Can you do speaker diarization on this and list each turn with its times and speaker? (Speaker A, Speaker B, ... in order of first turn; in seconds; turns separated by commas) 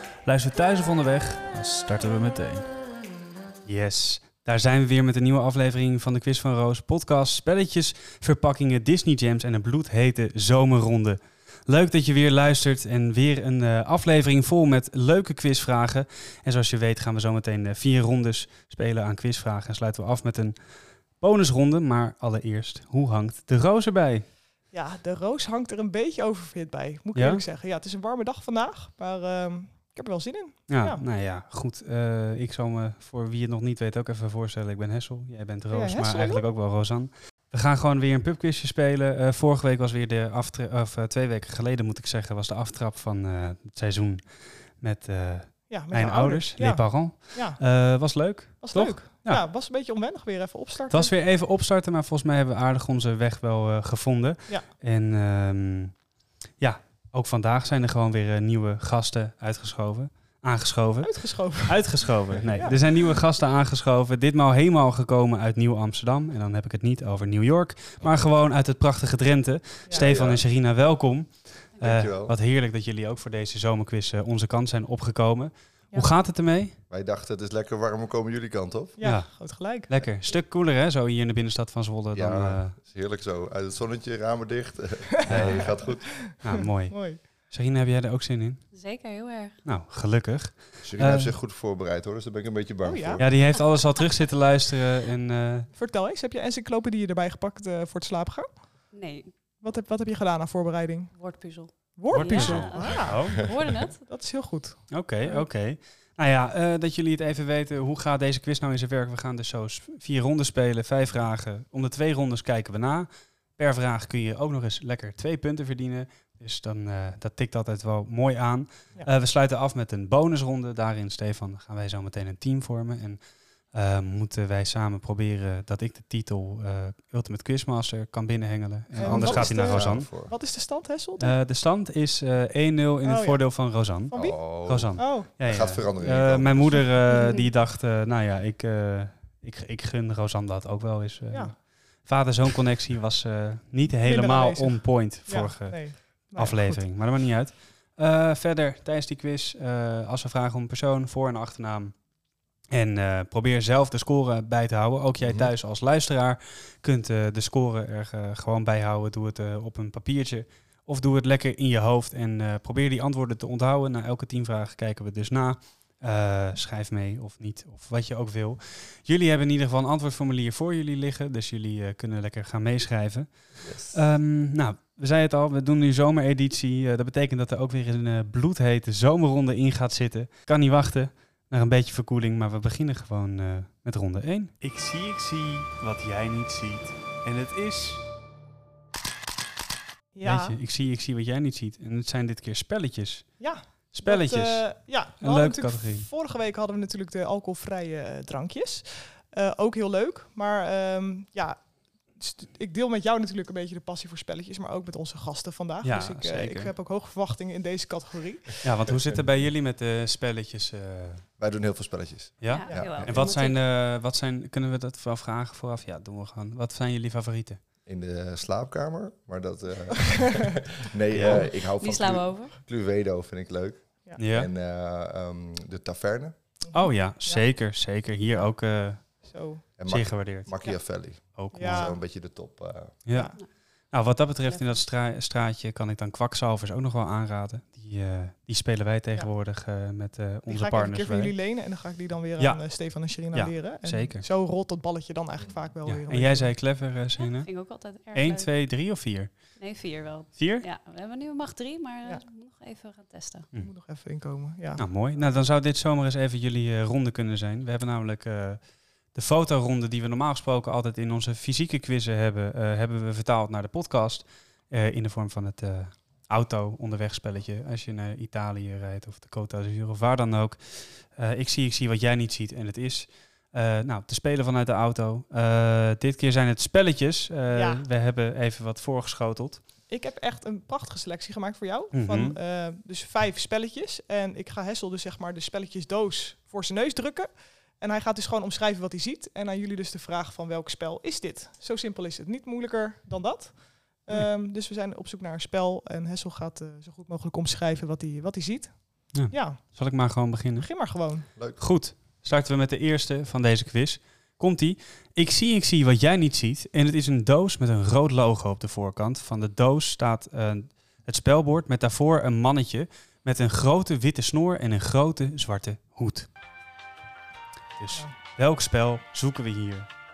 Speaker A: 0.2-2.7, Speaker A: 3.6-20.6, Speaker A: 21.2-24.2, Speaker B: 24.7-31.0, Speaker A: 27.1-27.4, Speaker A: 30.7-44.2, Speaker B: 35.7-36.4, Speaker A: 44.8-49.4, Speaker B: 45.7-47.6, Speaker B: 48.6-51.1, Speaker A: 50.9-56.0, Speaker A: 56.6-76.8, Speaker B: 61.0-62.0, Speaker B: 62.5-62.8, Speaker C: 69.9-70.4, Speaker C: 71.8-72.3, Speaker C: 76.9-79.0, Speaker B: 79.0-79.9, Speaker A: 79.0-82.8, Speaker C: 82.1-86.1, Speaker A: 85.3-85.8, Speaker B: 85.3-85.7, Speaker B: 86.3-87.2, Speaker A: 86.4-88.6, Speaker D: 88.7-89.6, Speaker A: 89.7-91.3, Speaker C: 90.8-93.3, Speaker B: 92.8-93.3, Speaker A: 93.2-95.7, Speaker B: 95.8-98.5, Speaker D: 98.9-99.3, Speaker B: 99.6-101.1, Speaker D: 101.1-104.0, Speaker B: 102.0-103.4, Speaker A: 102.1-103.5, Speaker B: 104.0-105.5, Speaker A: 104.9-123.2, Speaker A: 123.7-130.1, Speaker B: 129.0-131.4, Speaker C: 129.0-130.3, Speaker A: 131.2-152.0, Speaker B: 133.0-133.4, Speaker B: 134.1-134.4, Speaker C: 134.1-136.9, Speaker B: 135.0-135.3, Speaker B: 137.1-137.5, Speaker B: 144.0-146.8, Speaker A: 152.7-173.3, Speaker C: 155.2-155.5, Speaker C: 173.6-174.0, Speaker A: 173.9-188.0, Speaker B: 190.1-190.6, Speaker A: 190.2-193.3, Speaker B: 193.4-201.6, Speaker A: 193.9-194.7, Speaker A: 195.2-196.1, Speaker B: 202.2-208.6, Speaker A: 205.8-206.7, Speaker A: 208.6-211.2, Speaker C: 211.4-213.2, Speaker A: 212.4-217.6, Speaker D: 212.5-213.6, Speaker C: 217.9-226.4, Speaker A: 221.1-221.5, Speaker D: 221.6-222.5, Speaker A: 224.2-224.5, Speaker A: 226.7-229.0, Speaker B: 229.2-229.6, Speaker C: 229.8-233.0, Speaker A: 229.9-230.5, Speaker A: 231.3-231.9, Speaker B: 231.5-232.0, Speaker A: 233.1-233.3, Speaker B: 233.1-233.4, Speaker A: 233.9-241.3, Speaker B: 240.5-246.5, Speaker A: 242.4-242.6, Speaker A: 243.3-244.3, Speaker A: 245.8-247.5, Speaker D: 247.2-248.5, Speaker A: 248.1-249.3, Speaker D: 249.6-253.5, Speaker A: 250.4-250.6, Speaker B: 253.6-254.8, Speaker A: 254.8-258.6, Speaker A: 259.1-279.6, Speaker B: 277.5-277.8, Speaker B: 279.9-299.6, Speaker A: 281.9-282.4, Speaker A: 299.1-300.7, Speaker B: 300.6-301.3, Speaker A: 301.6-316.3, Speaker A: 317.8-319.9